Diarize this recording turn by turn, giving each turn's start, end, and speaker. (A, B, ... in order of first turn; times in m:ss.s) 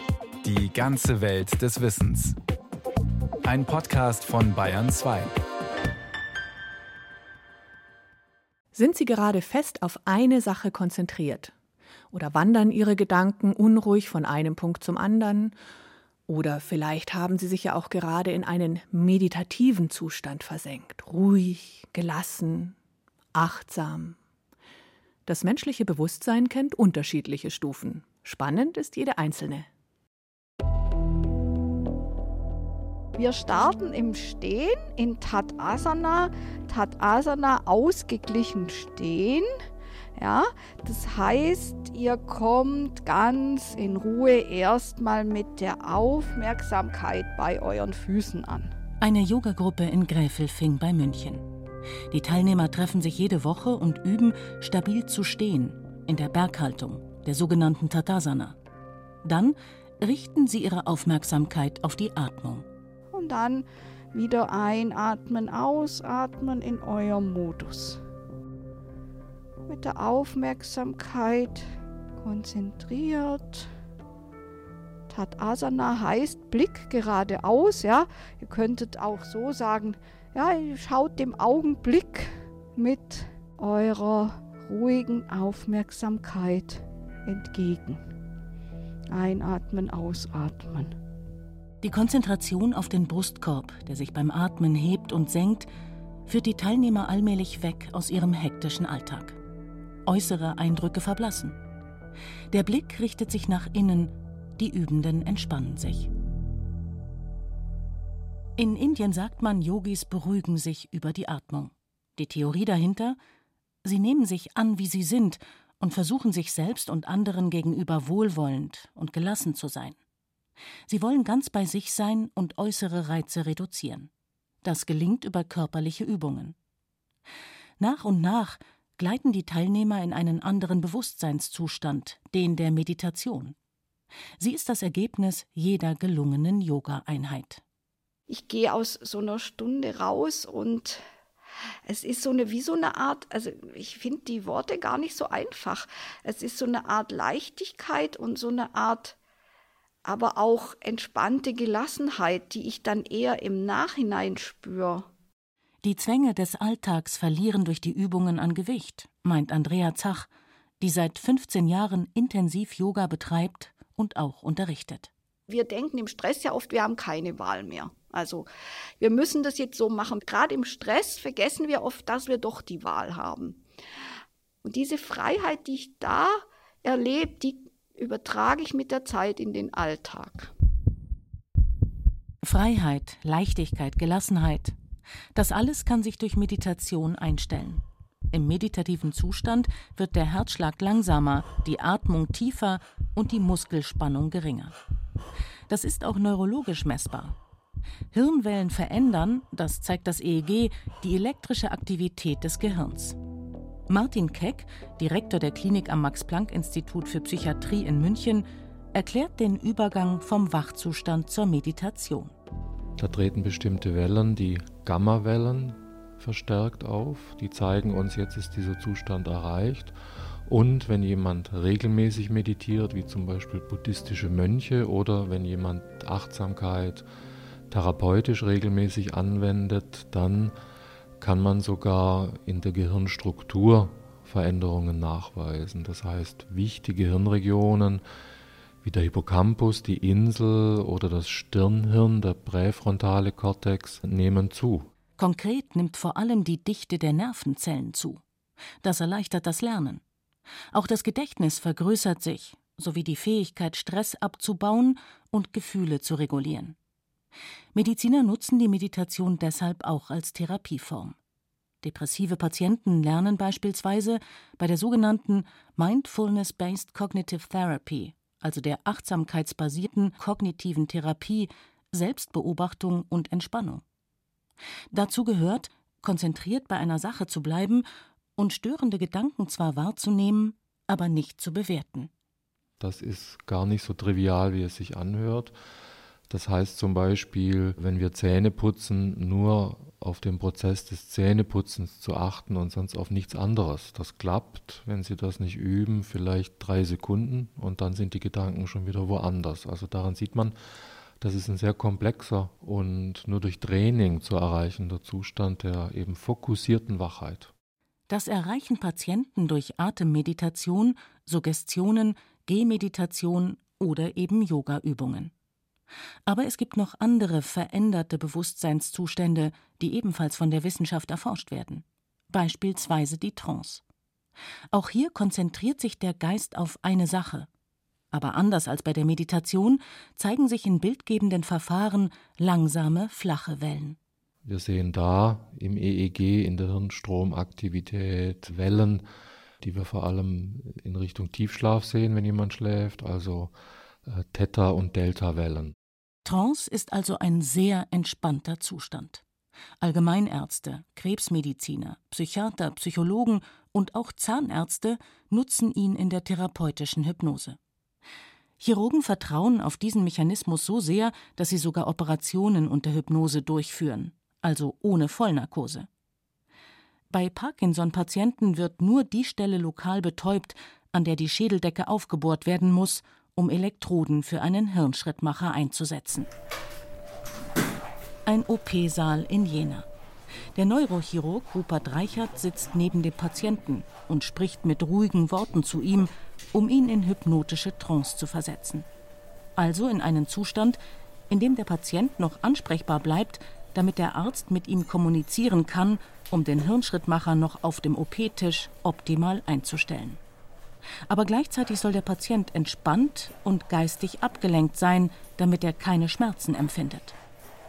0:00.4-0:02.4 A
0:03.4-0:05.3 A
0:08.7-0:11.5 B
0:12.1-0:15.6 B
0:16.3-0:22.8 B
0:23.3-0:24.2 B
0:25.3-0:29.7 B
0:33.2-0:39.5 C
0:40.2-0:48.7 C
0:49.0-0:51.4 D
0:52.1-0:58.6 D
0:59.2-1:02.7 D
1:03.1-1:08.0 C
1:09.7-1:11.6 C
1:12.2-1:13.7 C
1:15.1-1:28.0 C
1:29.1-1:30.9 C
1:31.8-1:35.7 D
1:36.3-1:39.4 D
1:40.1-1:41.6 D
1:42.5-1:46.1 D
1:48.6-1:53.2 D
1:53.8-2:00.0 D
2:00.9-2:04.1 D
2:04.6-2:06.6 D
2:07.8-2:13.6 D
2:14.4-2:17.6 D
2:18.3-2:21.0 C
2:21.9-2:29.2 C
2:30.0-2:35.1 C
2:35.8-2:40.3 D
2:40.8-2:45.1 D
2:45.5-2:48.5 C
2:49.0-2:53.6 C
2:54.6-3:00.5 C
3:02.4-3:04.8 D
3:05.4-3:14.8 D
3:15.7-3:17.4 D
3:18.1-3:23.2 D
3:23.9-3:32.3 D
3:33.0-3:40.0 E
3:40.5-3:47.1 E
3:47.7-3:50.6 E
3:51.2-3:58.0 E
3:58.8-4:04.9 E
4:05.2-4:08.2 D
4:08.8-4:10.0 D
4:10.7-4:16.8 D
4:17.7-4:21.2 D
4:21.8-4:33.8 D
4:34.9-4:37.8 D
4:38.4-4:42.1 D
4:42.8-4:45.6 E
4:46.3-5:00.6 E
5:01.2-5:07.5 E
5:08.1-5:15.3 D
5:16.3-5:23.8 D
5:24.7-5:27.5 D
5:28.1-5:34.0 D
5:34.4-5:39.0 E
5:39.6-5:43.5 E
5:44.1-5:45.8 E
5:46.2-5:49.2 D
5:49.8-5:57.6 D
5:58.6-6:05.9 D
6:07.1-6:16.3 D
6:18.3-6:19.9 D
6:20.6-6:28.9 D
6:29.6-6:40.2 D
6:41.1-6:47.2 D